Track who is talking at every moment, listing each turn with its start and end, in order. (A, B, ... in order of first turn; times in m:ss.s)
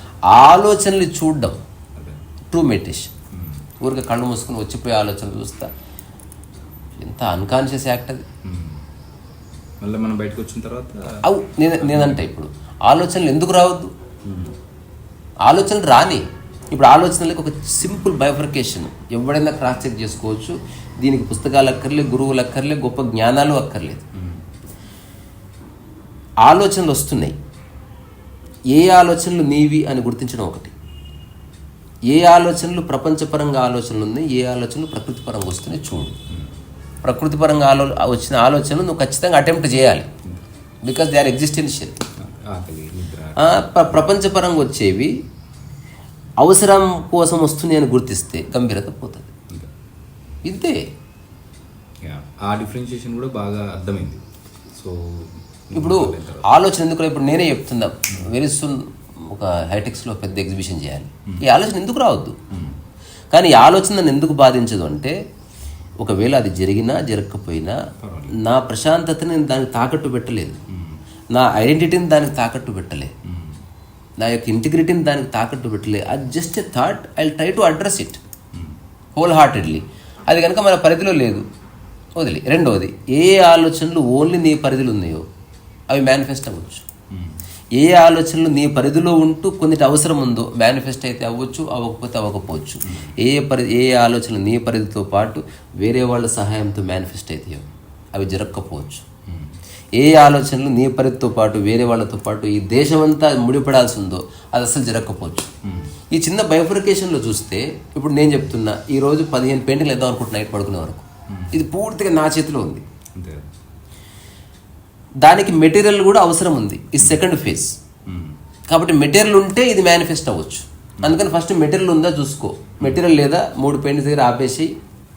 0:00.3-0:01.6 A
0:02.0-0:02.2 B
0:02.5-0:03.1 A
0:03.3-0:03.6 B
0:03.8-0:05.7 A
0:07.0-0:08.2 A
0:08.4-0:08.8 B
0:09.8-0:11.1 B
0:11.2-0:13.9 A
0:11.8-0:12.2 B
0:14.2-0:14.5 B
0:15.4-0:24.0 A
0:24.1-0:24.4 B
0:26.4-0:27.4 A
0:28.7-0:30.7 A
0:32.1-0:36.2 A
0:36.3-0:36.5 B
0:37.0-0:40.1 A
0:40.8-0:42.0 A
0:42.2-0:43.5 B
0:43.4-0:45.1 A
0:46.4-0:49.3 A
0:50.4-0:50.9 A
0:52.0-0:56.5 B
0:55.7-1:02.4 A
1:02.5-1:02.8 B
1:03.3-1:05.2 A
1:06.0-1:07.8 A
1:08.0-1:08.4 B
1:08.3-1:10.6 A
1:10.7-1:11.0 B
1:11.3-1:13.1 A
1:13.2-1:13.6 B
1:14.2-1:18.2 A
1:18.5-1:18.8 B
1:19.2-1:21.4 A
1:22.2-1:25.2 A
1:25.9-1:26.8 A
1:27.1-1:27.4 B
1:27.8-1:39.0 A
1:32.9-1:33.1 B
1:39.2-1:39.6 B
1:40.0-1:45.5 A
1:45.6-1:45.9 B
1:46.1-1:52.8 A
1:51.3-1:51.6 B
1:53.1-1:53.5 B
1:55.2-1:57.8 A
1:58.0-1:58.4 B
1:58.7-2:04.7 A